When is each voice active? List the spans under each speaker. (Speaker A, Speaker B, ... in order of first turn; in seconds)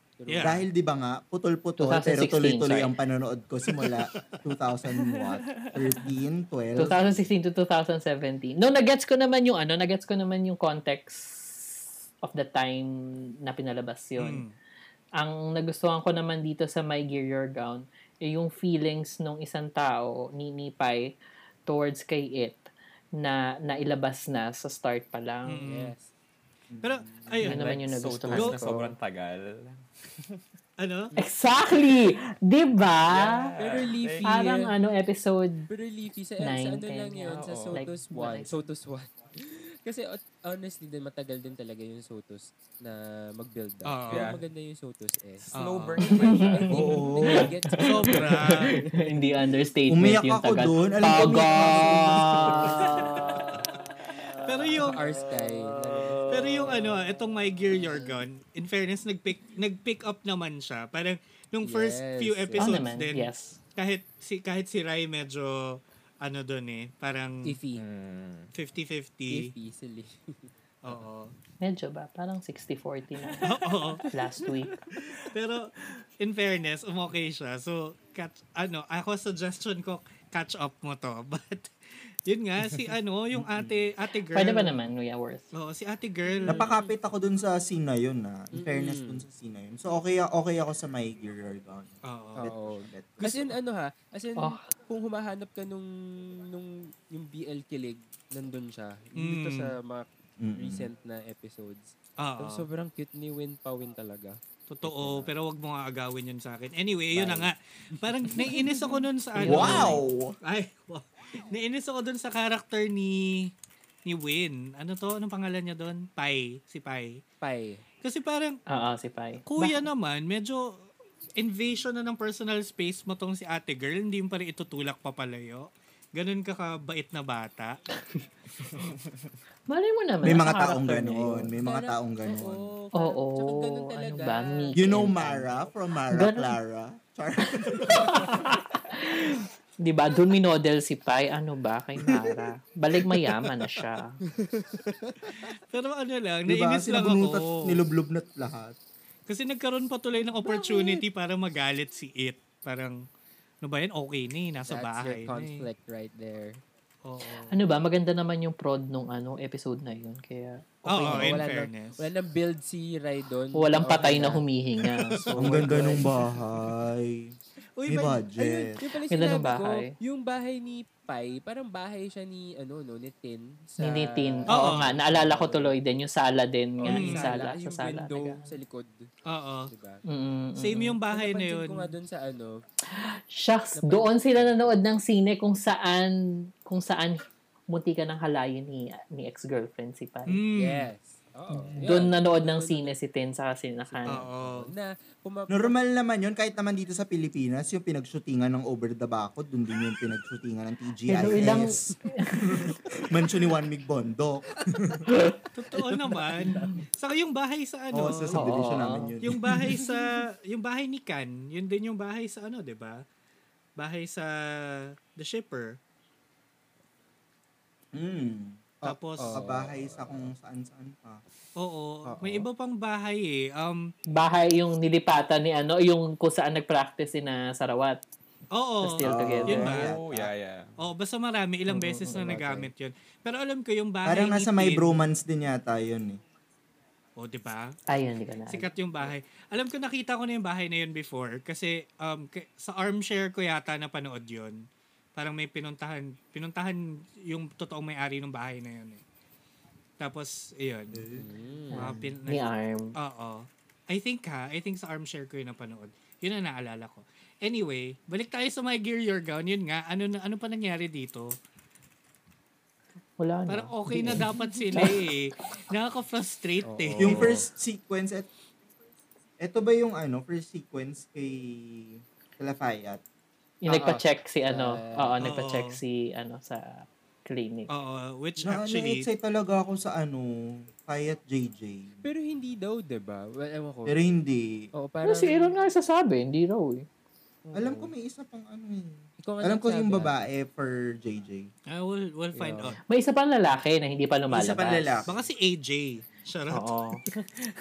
Speaker A: 0.2-0.6, 25.6-26.1, 33.6-34.7, 35.7-45.5, 46.1-48.9, 54.8-56.2, 61.6-62.8, 67.5-67.8, 69.3-70.5, 86.4-86.8, 88.5-89.2, 92.4-105.3, 107.1-109.0, 117.4-117.8, 131.6-135.2, 144.3-145.6, 154.6-156.6, 161.0-164.4, 165.3-166.1, 168.4-175.8, 176.8-179.1, 179.7-180.0, 181.1-182.6, 183.8-184.7, 190.5-192.9, 193.9-195.7, 206.3-206.7, 218.8-220.3, 251.1-252.0, 266.6-267.5, 273.7-275.1, 282.0-284.0, 284.7-285.5, 287.4-287.9, 289.2-290.2, 292.3-292.7
Speaker B: 0.3-0.6, 14.2-14.5, 25.5-25.9, 26.8-27.7, 28.3-28.6, 30.8-31.1, 43.8-44.4, 45.5-46.1, 47.8-48.7, 54.4-55.0, 56.3-67.6, 68.5-69.5, 70.8-71.3, 73.4-74.0, 75.3-81.7, 82.3-84.8, 85.5-86.7, 92.0-92.5, 93.2-93.6, 99.2-99.8, 102.2-102.7, 104.7-113.5, 114.0-117.2, 118.0-118.6, 119.5-120.8, 121.4-127.8, 145.7-147.8, 149.3-153.0, 153.6-155.7, 157.0-157.5, 160.8-162.1, 167.8-168.2, 174.5-174.9, 176.8-177.3, 179.3-179.7, 180.6-181.9, 190.3-190.8, 194.1-194.7, 205.5-208.6, 209.2-213.0, 213.8-215.8, 218.8-219.4, 221.6-223.9, 228.5-229.9, 230.8-235.0, 237.2-237.8, 238.5-244.6, 245.2-249.0, 250.0-251.0, 251.8-261.3, 263.5-267.4, 275.2-275.8, 277.7-279.1, 291.7-292.8, 295.1-296.8
Speaker C: 0.4-7.2, 26.7-27.3, 46.7-47.5, 49.9-52.9, 83.3-83.9, 86.5-93.2, 100.4-100.9, 109.4-110.3, 130.2-132.7, 134.8-138.4, 146.5-148.8, 165.4-167.3, 167.9-168.8, 195.5-205.1, 207.9-209.7, 217.9-218.6, 219.3-221.2, 229.0-230.3, 234.0-236.2, 250.9-251.3, 267.0-268.3, 269.4-273.0, 278.4-282.0, 283.9-284.6, 287.5-291.5, 294.3-295.2
Speaker D: 1.8-2.9, 6.8-14.4, 15.2-21.1, 21.7-25.6, 27.4-28.9, 31.1-33.5, 34.2-35.7, 36.4-38.7, 46.0-53.5, 62.6-63.6, 71.6-74.8, 84.3-85.4, 94.4-94.6, 109.4-110.0, 118.7-119.9, 129.7-131.5, 132.9-135.5, 136.1-136.5, 137.6-144.2, 150.4-151.0, 157.5-161.4, 163.5-166.0, 169.1-169.9, 173.8-178.5, 180.1-181.0, 182.9-190.4, 191.5-194.2, 201.1-202.8, 205.1-205.4, 208.3-209.1, 224.1-228.0, 228.8-229.8, 231.7-232.7, 237.9-238.7, 251.7-252.9, 263.2-265.1, 273.6-277.7, 285.0-286.9, 292.9-295.0, 296.5-297.0
Speaker E: 5.5-5.7, 27.4-30.4, 33.1-34.4, 37.4-37.8, 44.1-44.4, 45.4-47.4, 52.6-56.8, 67.7-68.5, 73.2-75.3, 229.5-230.8